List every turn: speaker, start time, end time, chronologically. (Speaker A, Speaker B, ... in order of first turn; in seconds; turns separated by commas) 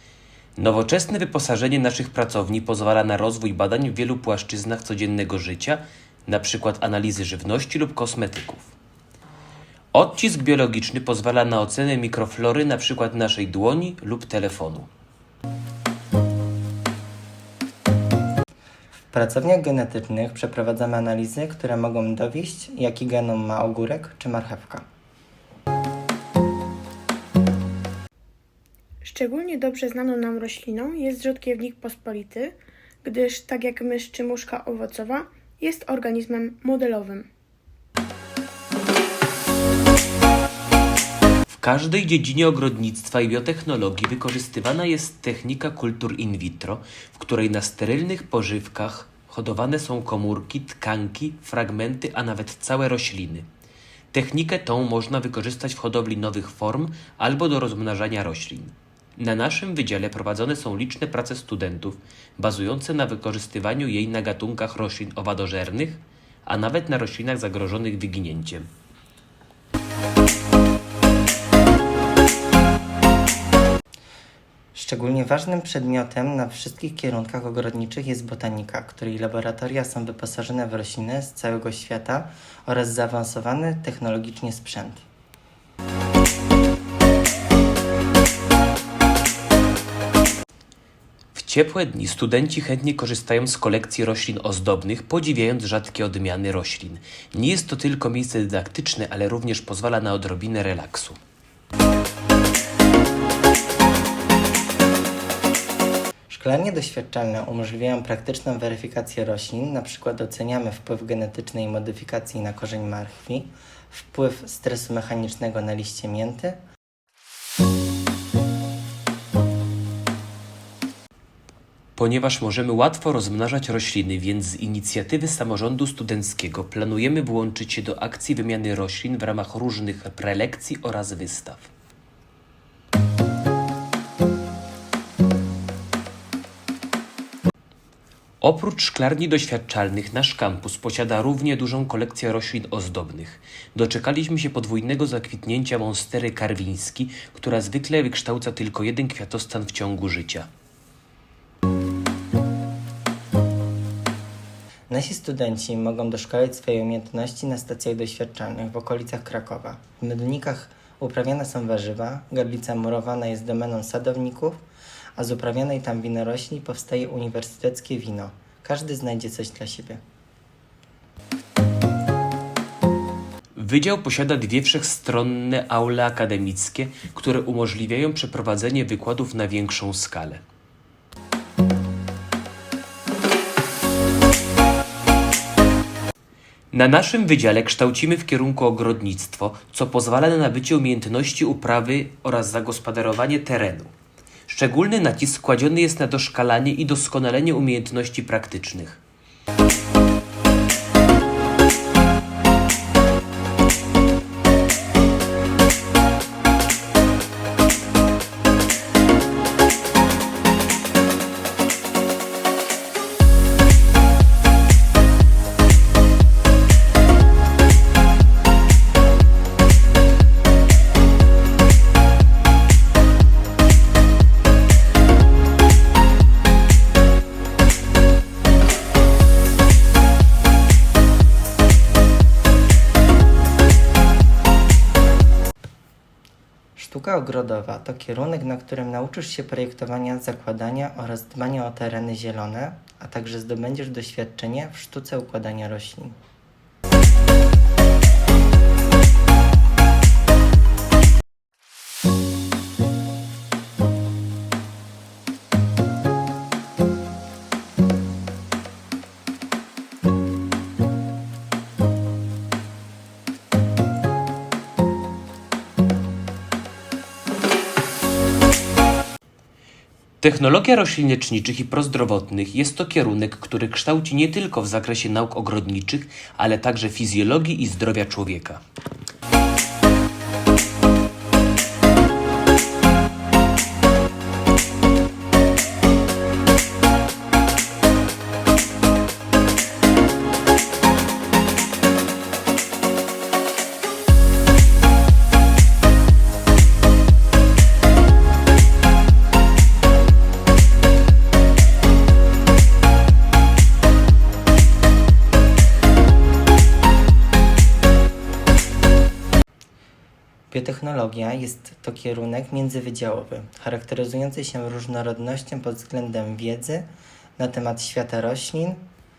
Speaker A: 0.6-8.7, Speaker A: 9.9-14.9, Speaker B: 19.1-24.8, Speaker C: 29.0-37.3, Speaker A: 41.5-53.5, Speaker A: 54.1-68.7, Speaker B: 74.7-85.0, Speaker A: 91.3-101.2, Speaker B: 106.3-116.6, Speaker A: 122.0-131.7, Speaker A: 138.4-150.5, Speaker B: 154.9-164.6, Speaker B: 165.2-170.0, Speaker A: 173.5-180.4, Speaker A: 186.7-193.9, Speaker A: 194.5-199.0, Speaker B: 236.8-246.2, Speaker A: 270.2-278.6, Speaker B: 310.5-318.8